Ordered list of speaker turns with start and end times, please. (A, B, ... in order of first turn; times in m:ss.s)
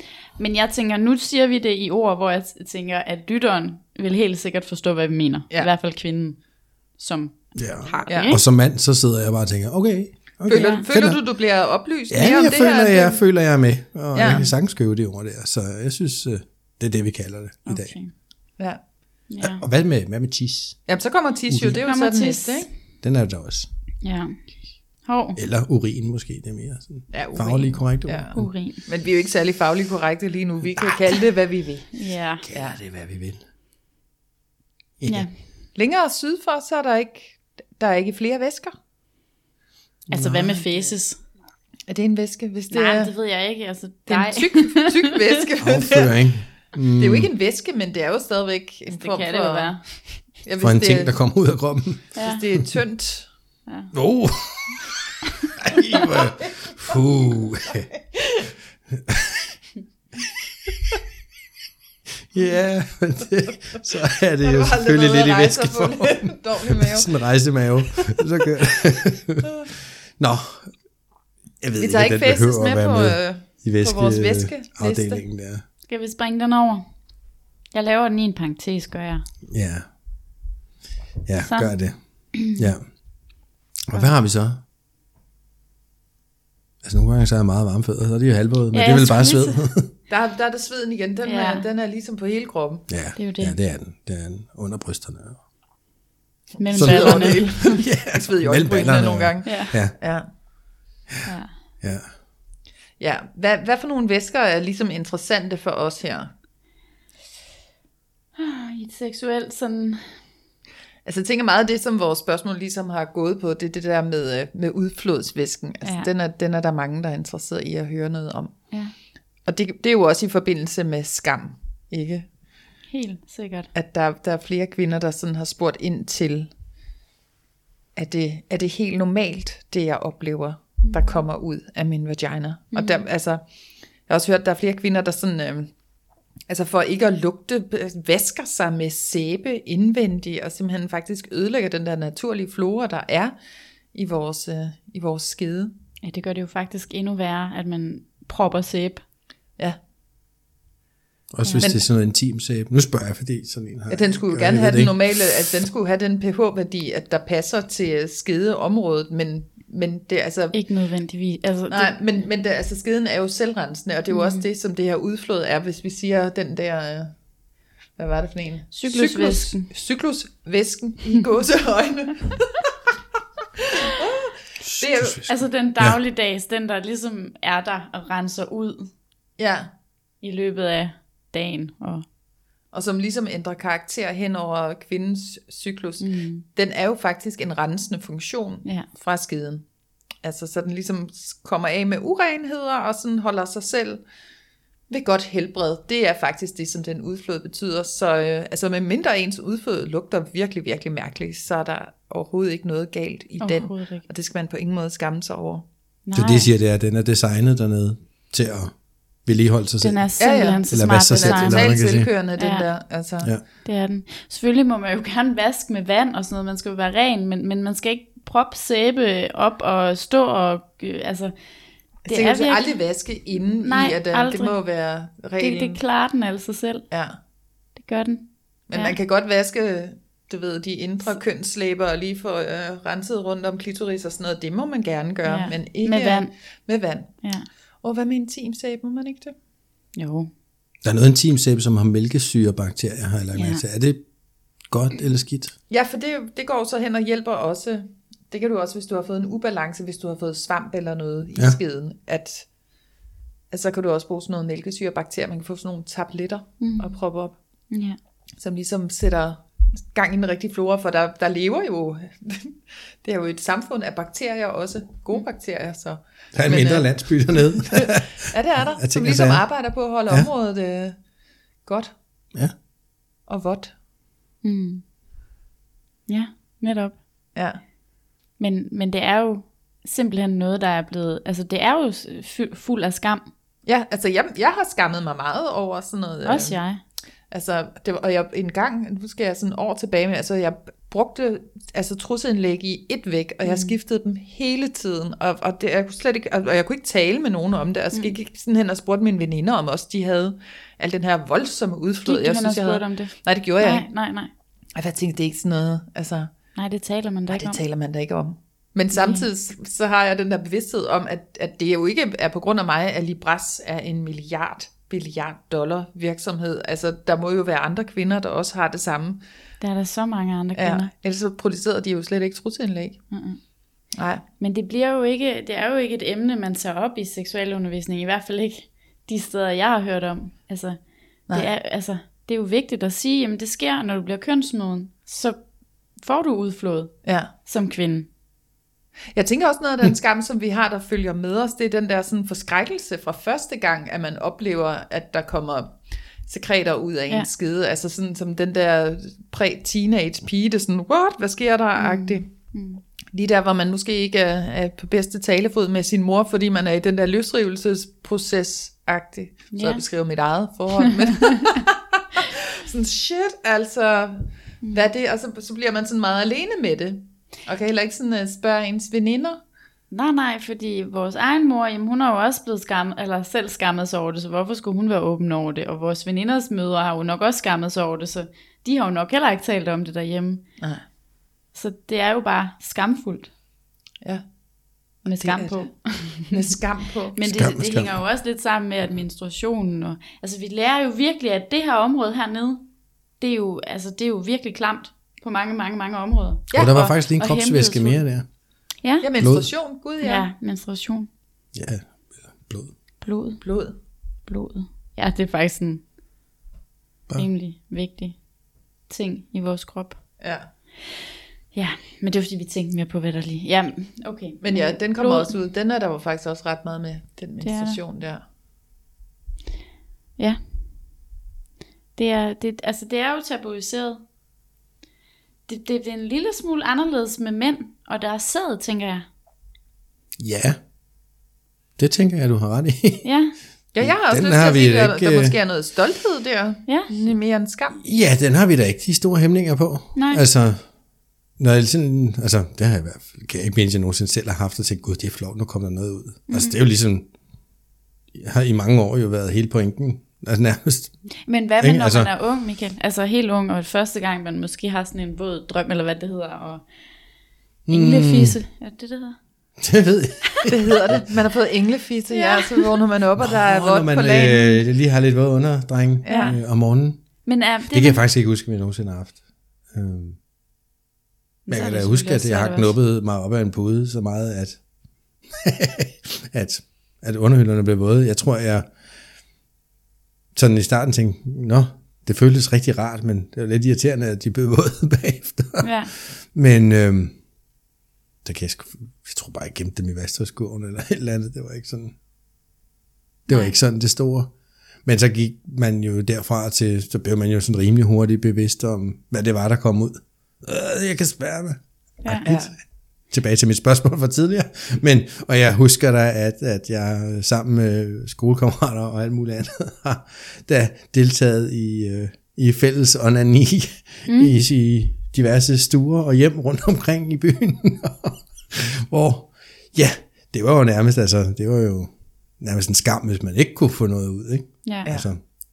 0:00.4-0:06.4 A
0:07.0-0:08.4 A
0:07.6-0:11.2 B
0:10.5-0:13.2 C
0:10.5-0:10.9 A
0:12.1-0:17.9 B
0:14.1-0:14.5 C
0:17.7-0:18.1 A
0:19.3-0:19.6 A
0:19.4-0:20.8 B
0:20.9-0:22.7 C
0:21.5-0:21.8 B
0:21.8-0:22.7 A
0:23.0-0:23.7 B
0:24.0-0:24.3 A
0:25.0-0:25.4 A
0:25.4-0:28.5 B
0:27.1-0:28.3 C
0:28.4-0:28.8 A
0:28.8-0:31.9 C
0:31.9-0:32.4 A
0:32.4-0:33.4 B
0:35.0-0:35.3 B
0:35.8-0:38.7 C
0:40.1-0:40.6 B
0:40.1-0:41.2 A
0:41.9-0:43.1 C
0:42.7-0:45.2 A
0:44.1-0:46.1 C
0:45.6-0:47.3 B
0:47.0-0:49.8 C
0:48.9-0:49.8 A
0:50.4-0:51.1 C
0:50.6-0:52.1 B
0:52.2-0:52.4 A
0:52.2-0:53.3 C
0:53.7-0:53.9 A
0:53.9-0:54.8 B
0:55.6-0:57.9 B
0:58.9-0:59.5 B
1:02.3-1:09.5 B
1:04.4-1:07.1 C
1:07.8-1:08.2 C
1:10.2-1:10.7 B
1:11.6-1:15.6 B
1:11.8-1:15.2 C
1:15.9-1:16.9 A
1:17.7-1:19.3 A
1:19.5-1:19.9 B
1:21.3-1:22.8 B
1:21.5-1:21.7 A
1:23.9-1:24.6 B
1:26.8-1:29.9 B
1:28.7-1:29.6 A
1:30.1-1:32.9 C
1:31.2-1:31.7 A
1:32.9-1:35.4 B
1:33.2-1:33.6 A
1:36.6-1:37.5 A
1:36.6-1:40.3 C
1:36.8-1:40.0 B
1:39.4-1:39.7 A
1:41.2-1:41.5 A
1:41.8-1:42.1 B
1:43.0-1:46.3 C
1:48.4-1:50.1 A
1:51.0-1:58.5 C
1:55.8-1:56.1 A
1:59.5-2:02.3 C
2:02.9-2:03.7 A
2:03.7-2:06.5 C
2:08.0-2:13.4 C
2:10.8-2:11.2 A
2:12.7-2:13.0 A
2:14.1-2:15.7 C
2:16.5-2:23.4 C
2:23.9-2:25.7 C
2:26.0-2:29.0 A
2:31.3-2:35.2 B
2:31.4-2:31.7 A
2:33.9-2:40.6 C
2:40.5-2:42.0 A
2:41.7-2:47.1 C
2:44.1-2:44.4 A
2:48.0-2:52.7 C
2:48.7-2:49.7 A
2:53.7-2:55.3 C
2:54.6-2:56.0 B
2:55.2-2:58.9 A
2:59.4-2:59.7 C
3:00.2-3:02.0 A
3:02.7-3:09.6 C
3:06.0-3:06.4 A
3:10.2-3:14.0 C
3:14.9-3:25.6 C
3:23.4-3:24.0 A
3:26.1-3:26.5 A
3:26.1-3:28.7 B
3:29.3-3:30.0 B
3:29.8-3:31.7 A
3:30.2-3:33.3 C
3:30.7-3:32.1 B
3:32.4-3:32.7 A
3:33.6-3:41.3 A
3:42.1-3:45.8 C
3:42.1-3:42.6 A
3:43.6-3:44.6 A
3:45.4-3:46.9 A
3:46.9-3:47.2 C
3:47.8-3:49.0 A
3:48.7-3:57.1 C
3:55.2-3:56.3 A
3:57.8-3:59.3 C
4:00.0-4:00.3 A
4:00.8-4:04.0 B
4:03.4-4:03.6 A
4:04.7-4:05.5 B
4:05.7-4:12.5 C
4:13.5-4:17.4 C
4:16.6-4:17.0 A
4:17.7-4:18.0 A
4:18.4-4:31.0 C
4:26.3-4:28.2 B
4:28.8-4:29.4 B
4:31.7-4:31.9 C
4:33.3-4:33.7 C
4:34.4-4:34.8 A
4:36.1-4:37.0 A
4:38.4-4:43.3 A
4:43.7-4:46.6 C
4:46.2-4:46.8 A
4:47.3-5:03.9 C
4:53.5-4:53.7 A
5:02.0-5:04.3 A
5:04.8-5:06.3 C
5:06.6-5:07.6 A
5:07.3-5:19.2 C
5:08.9-5:09.3 A
5:19.6-5:20.9 A
5:20.6-5:23.0 C
5:23.1-5:23.4 A
5:24.0-5:24.2 C
5:24.4-5:35.4 A
5:36.0-5:36.9 A
5:37.0-5:37.3 C
5:37.4-5:38.1 A
5:39.1-5:52.3 C
5:51.8-5:52.8 A
5:53.1-6:09.4 C
5:59.5-5:59.8 A
6:01.1-6:01.6 A
6:09.9-6:20.4 A
6:21.5-6:23.3 A
6:25.0-6:26.5 A
6:25.1-6:25.7 C
6:26.3-6:27.2 C
6:27.1-6:32.6 A
6:27.2-6:28.0 B
6:33.2-6:38.0 A
6:36.5-6:36.9 C
6:36.5-6:38.3 B
6:39.0-6:40.3 C
6:39.2-6:39.5 B
6:40.0-6:41.1 A
6:41.5-6:42.7 B
6:43.0-6:43.4 A
6:43.4-6:43.8 C
6:44.3-6:45.8 A
6:47.2-6:48.2 A
6:48.9-6:50.0 A
6:50.2-6:50.5 C
6:51.5-6:55.3 A
6:54.4-6:58.2 C
6:57.4-6:57.8 A
7:02.0-7:04.0 A
7:05.5-7:09.1 A
7:10.2-7:10.6 B
7:11.8-7:13.1 B
7:13.0-7:13.4 A
7:13.7-7:17.8 C
7:13.8-7:15.4 B
7:17.8-7:20.6 B
7:20.0-7:20.2 A
7:21.4-7:27.1 B
7:26.3-7:26.6 A
7:28.1-7:30.9 B
7:31.3-7:36.6 A
7:31.6-7:32.1 B
7:37.7-7:38.4 B
7:37.7-7:39.2 A
7:39.6-7:41.0 B
7:40.5-7:44.6 C
7:42.1-7:42.8 A
7:43.2-7:47.0 B
7:46.0-7:46.4 C
7:46.1-7:46.4 A
7:47.2-7:48.0 A
7:47.7-7:49.2 B
7:49.7-7:50.2 B
7:51.5-7:52.8 A
7:51.5-7:54.6 B
7:55.3-7:58.7 B
8:00.4-8:07.2 B
8:05.6-8:05.9 A
8:08.2-8:12.0 B
8:13.3-8:14.3 B
8:14.8-8:22.5 B
8:22.0-8:22.3 A
8:22.2-8:22.5 C
8:23.1-8:45.2 B
8:34.1-8:34.4 A
8:44.6-8:44.9 A